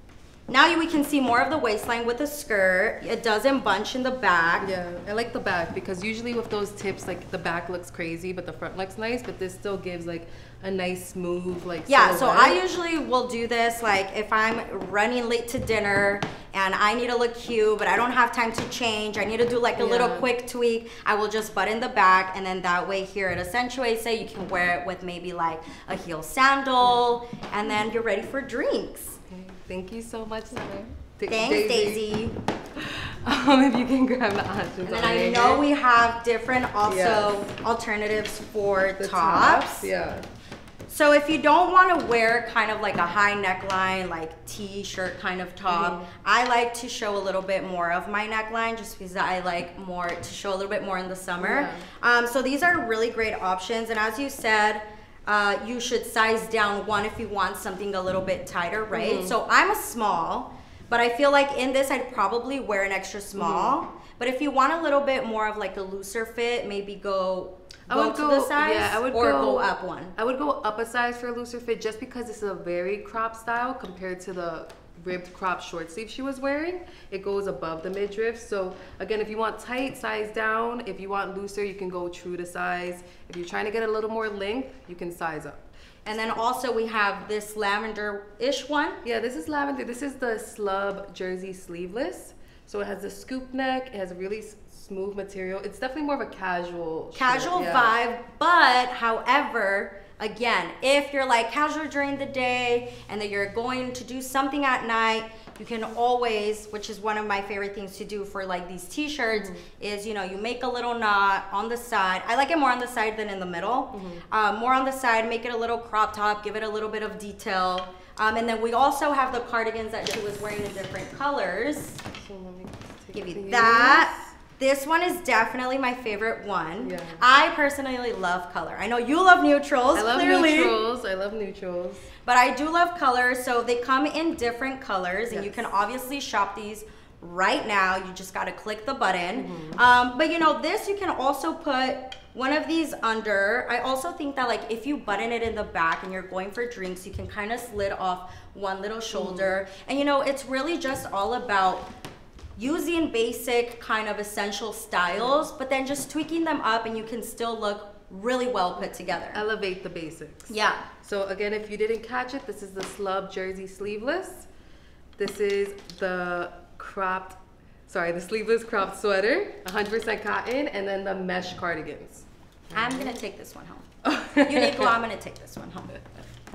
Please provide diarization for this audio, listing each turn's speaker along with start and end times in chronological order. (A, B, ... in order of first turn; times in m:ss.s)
0:00.5-0:04.7 A
0:04.6-0:12.6 B
0:11.9-0:29.2 A
0:19.8-0:20.3 B
0:29.3-0:32.0 B
0:31.3-0:32.4 A
0:32.8-0:35.6 B
0:34.8-0:39.9 A
0:36.8-0:37.3 B
0:39.0-0:40.3 B
0:40.9-1:10.2 A
0:45.7-0:46.1 B
0:51.4-0:51.9 B
0:58.9-0:59.4 B
1:03.4-1:03.8 B
1:07.9-1:25.6 B
1:26.0-1:29.0 A
1:29.0-1:37.9 B
1:37.1-2:02.0 A
1:49.4-1:49.7 B
1:53.9-1:54.3 B
2:02.2-2:04.3 B
2:03.1-2:10.8 A
2:06.8-2:07.2 B
2:10.0-2:12.1 B
2:12.2-2:31.9 A
2:15.3-2:15.7 B
2:19.4-2:19.8 B
2:29.1-2:29.5 B
2:32.6-2:39.4 A
2:35.2-2:35.4 B
2:39.3-2:44.5 B
2:40.5-2:40.8 A
2:45.2-2:53.1 B
2:52.7-2:55.9 A
2:54.0-2:55.0 B